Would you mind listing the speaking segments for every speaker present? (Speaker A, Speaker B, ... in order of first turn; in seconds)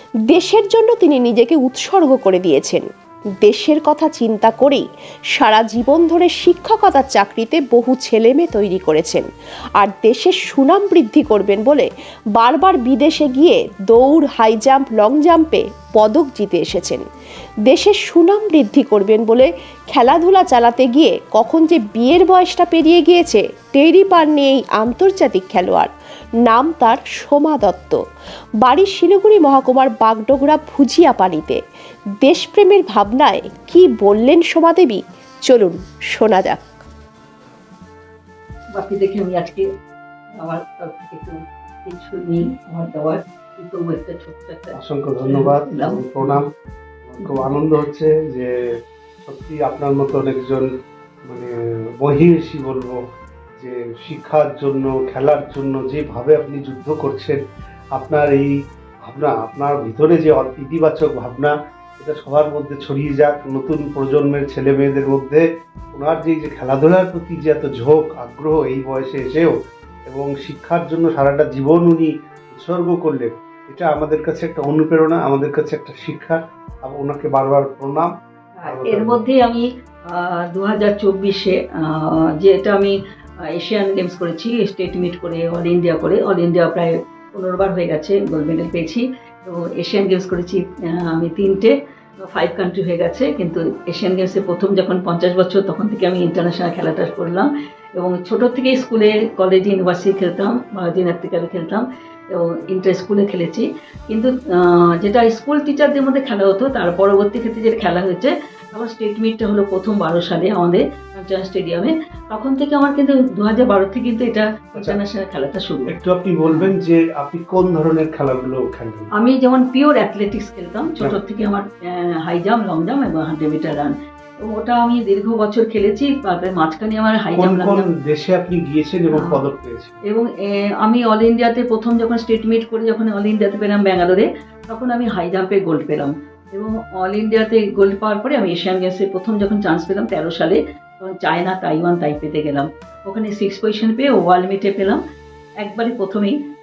Speaker A: 0.3-2.9, 3.4-4.8, 5.4-9.3, 9.8-17.1, 17.7-25.9, 26.5-28.0, 28.6-31.6, 32.2-36.6
Speaker B: 38.8-39.7, 40.4-46.4, 47.2-47.6, 78.6-82.9, 83.5-91.7, 92.3-115.9, 116.5-116.7, 119.2-127.9, 130.1-145.0, 145.6-146.4
Speaker C: 44.8-46.5, 47.0-48.7, 49.3-50.7, 51.3-53.0, 53.6-57.4, 58.0-58.5, 59.0-69.5, 70.1-78.1, 78.7-79.2, 115.9-119.1, 127.4-129.9